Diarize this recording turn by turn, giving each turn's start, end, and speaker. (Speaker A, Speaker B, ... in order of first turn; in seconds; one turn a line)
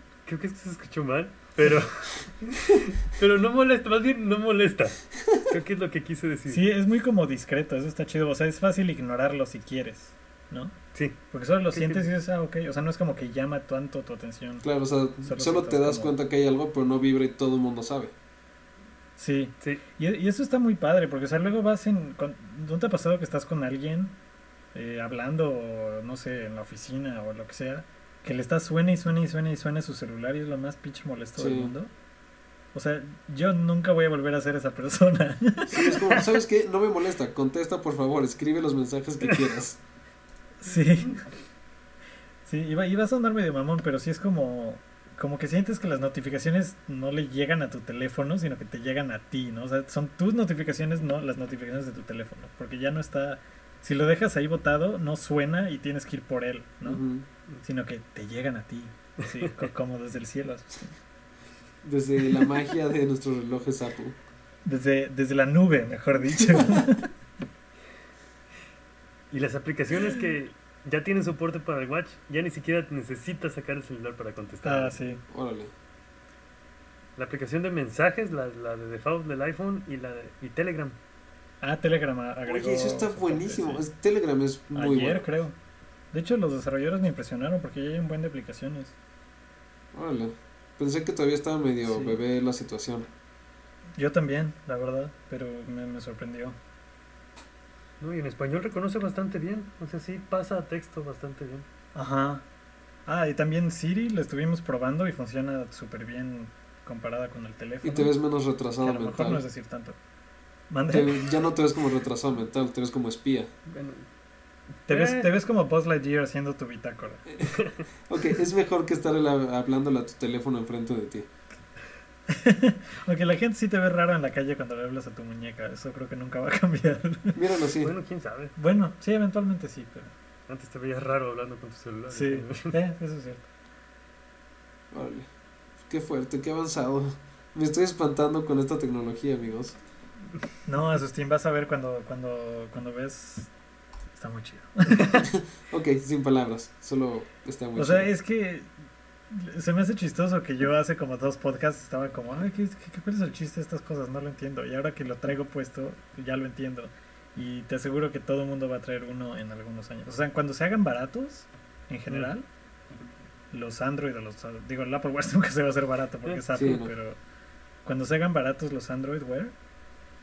Speaker A: 0.3-6.6
Speaker B: 6.5-10.8
Speaker B: 11.3-14.7
Speaker A: 11.7-12.1
Speaker C: 14.6-18.1
Speaker B: 15.2-16.1
Speaker B: 19.2-24.1
Speaker B: 24.7-31.9
Speaker C: 31.4-31.7
Speaker B: 32.7-36.2
Speaker C: 35.7-39.8
Speaker B: 40.6-41.2
Speaker B: 42.5-57.0
Speaker C: 56.9-57.3
Speaker B: 57.6-60.9
Speaker A: 59.2-59.5
Speaker C: 61.8-64.2
Speaker B: 64.7-67.1
Speaker A: 69.3-75.0
Speaker B: 74.6-75.2
Speaker C: 75.3-75.7
Speaker A: 77.2-81.0
Speaker B: 81.6-83.9
Speaker C: 82.5-85.2
Speaker B: 84.7-85.5
Speaker B: 86.1-89.0
Speaker C: 89.9-93.1
Speaker B: 91.9-92.2
Speaker B: 94.0-96.6
Speaker A: 98.0-101.7
Speaker B: 102.0-102.4
Speaker B: 103.1-108.1
Speaker C: 107.8-109.4
Speaker B: 108.8-110.0
Speaker B: 110.7-111.4
Speaker C: 110.9-113.5
Speaker A: 113.7-114.1
Speaker A: 114.8-115.3
Speaker B: 114.9-117.2
Speaker C: 117.3-121.3
Speaker A: 117.5-117.8
Speaker B: 122.3-127.4
Speaker C: 127.3-127.9
Speaker A: 127.8-128.5
Speaker B: 128.6-130.1
Speaker A: 130.5-132.8
Speaker B: 132.1-133.4
Speaker C: 134.9-135.3
Speaker C: 135.8-139.8
Speaker B: 140.7-143.5
Speaker B: 144.1-145.2
Speaker C: 145.2-148.1
Speaker B: 147.8-148.7
Speaker B: 149.3-162.5
Speaker B: 163.5-167.2
Speaker C: 166.6-166.9
Speaker B: 167.8-169.5